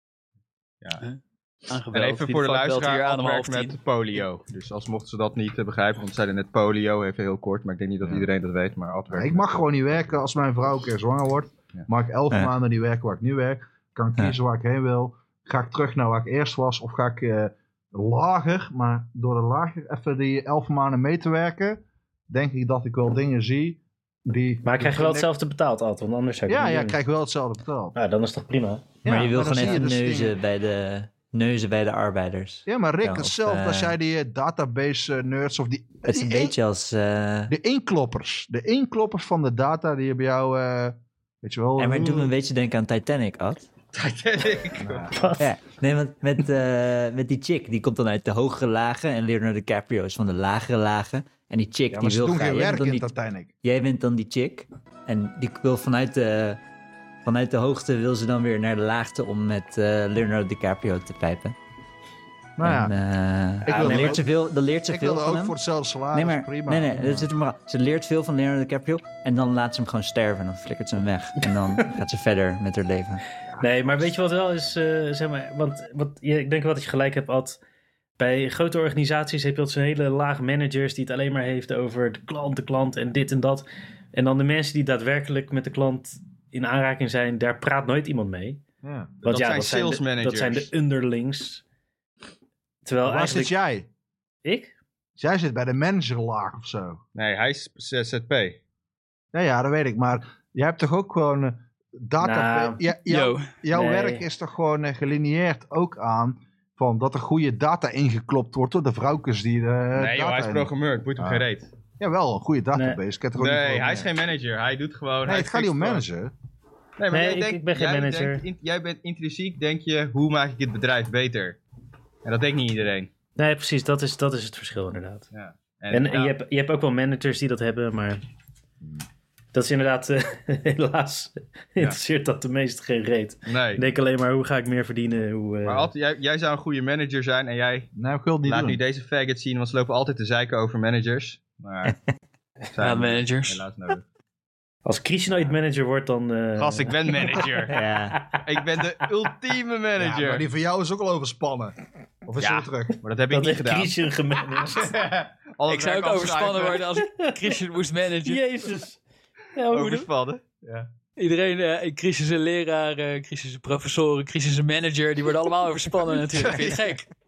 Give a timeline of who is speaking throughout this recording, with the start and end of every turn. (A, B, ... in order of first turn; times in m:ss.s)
0:01.0-0:03.8 A
0:01.9-0:09.6 B
0:09.1-0:25.3 C
0:24.6-0:27.0 D
0:26.5-0:27.9 C
0:27.9-0:29.0 D
0:29.0-0:30.4 C
0:29.0-0:34.0 E
0:32.7-0:36.5 C
0:36.0-0:37.5 E
0:37.5-0:42.3 C
0:41.8-0:43.7 E
0:43.9-0:45.1 B
0:44.8-0:45.1 C
0:45.1-0:45.5 D
0:45.4-0:53.1 E
0:51.9-0:53.5 C
0:53.6-0:56.6 E
0:57.2-1:01.6 E
1:02.6-1:02.9 C
1:02.6-1:05.6 E
1:03.6-1:04.3 C
1:04.9-1:07.3 C
1:06.1-1:13.2 E
1:13.6-1:17.6 D
1:18.2-1:28.6 D
1:28.8-1:29.2 C
1:29.2-1:30.7 B
1:29.2-1:31.6 D
1:32.8-1:33.5 D
1:33.0-1:33.9 C
1:34.4-1:34.7 D
1:35.2-1:37.0 C
1:37.1-1:38.6 B
1:39.3-1:51.4 C
1:42.2-1:42.8 D
1:43.1-1:43.5 A
1:43.7-1:44.2 D
1:49.9-1:51.7 B
1:52.0-1:54.1 C
1:52.7-1:53.0 D
1:53.4-1:56.0 B
1:55.2-1:56.3 C
1:57.0-2:01.6 B
1:57.1-1:58.4 D
2:02.2-2:03.1 B
2:03.4-2:05.3 D
2:05.3-2:06.4 B
2:05.9-2:08.2 D
2:09.5-2:15.9 D
2:13.4-2:13.9 B
2:15.6-2:17.9 B
2:17.9-2:18.8 C
2:18.4-2:22.0 B
2:22.7-2:24.0 B
2:22.8-2:23.6 A
2:24.8-2:27.4 D
2:26.6-2:27.8 B
2:27.7-2:28.2 E
2:28.4-2:30.4 B
2:30.0-2:33.0 C
2:32.4-2:33.9 B
2:33.3-2:35.0 D
2:34.8-2:36.8 B
2:35.6-2:38.4 A
2:38.2-2:39.0 D
2:39.5-2:40.1 D
2:39.7-2:40.9 B
2:41.2-2:47.1 A